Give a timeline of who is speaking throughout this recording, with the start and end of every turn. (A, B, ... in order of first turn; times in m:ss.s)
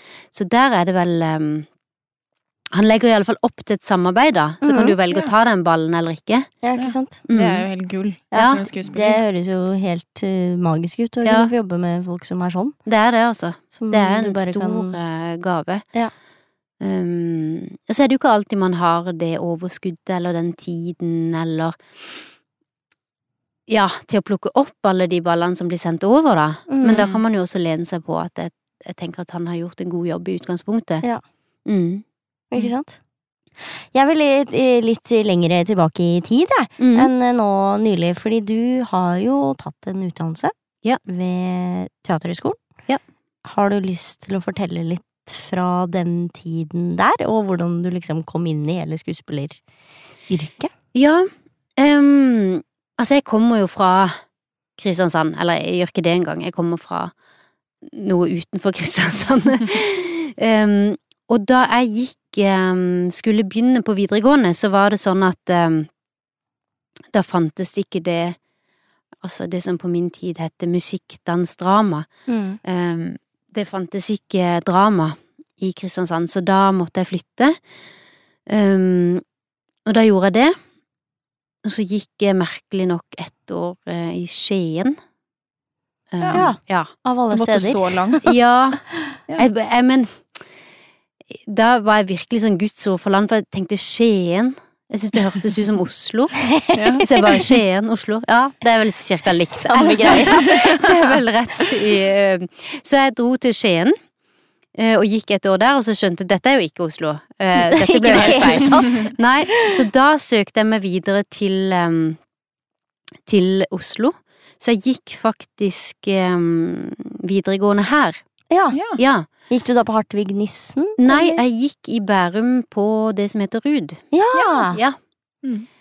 0:00.3-0:01.7 A
0:02.7-0:06.5 A
0:04.6-0:04.9 B
0:06.6-0:07.2 B
0:06.8-0:09.2 C
0:07.2-0:07.6 A
0:08.3-0:12.8 B
0:08.3-0:08.6 A
0:11.2-0:11.5 A
0:12.8-0:15.9 A
0:13.7-0:15.0 B
0:16.8-0:21.8 A
0:23.7-0:31.0 A
0:26.7-0:27.2 B
0:31.6-0:32.0 A
0:32.5-0:33.0 B
0:33.9-0:40.5 B
0:36.8-0:37.1 A
0:41.0-0:42.6 B
0:43.4-0:49.6 B
0:50.3-0:50.7 B
0:50.9-0:54.2 A
0:54.8-0:57.1 A
0:57.9-1:05.9 A
1:07.1-1:08.4 A
1:09.2-1:12.1 A
1:12.3-1:12.6 B
1:12.6-1:17.6 A
1:18.5-1:19.2 A
1:19.8-1:20.5 A
1:21.6-1:25.0 A
1:26.1-1:26.9 A
1:26.2-1:26.4 C
1:26.3-1:28.2 B
1:27.3-1:28.3 C
1:28.2-1:28.8 A
1:29.4-1:30.3 A
1:31.3-1:36.5 A
1:36.5-1:37.5 B
1:36.7-1:37.0 C
1:37.0-1:43.9 A
1:39.5-1:40.6 B
1:40.2-1:40.5 C
1:44.8-1:52.2 A
1:47.6-1:49.7 B
1:48.1-1:48.4 C
1:53.3-1:58.2 A
1:58.5-1:58.8 B
1:58.7-1:59.0 C
1:59.0-1:59.3 A
1:59.5-2:01.4 B
2:01.0-2:04.0 A
2:04.1-2:04.8 B
2:04.3-2:04.6 C
2:04.7-2:05.0 A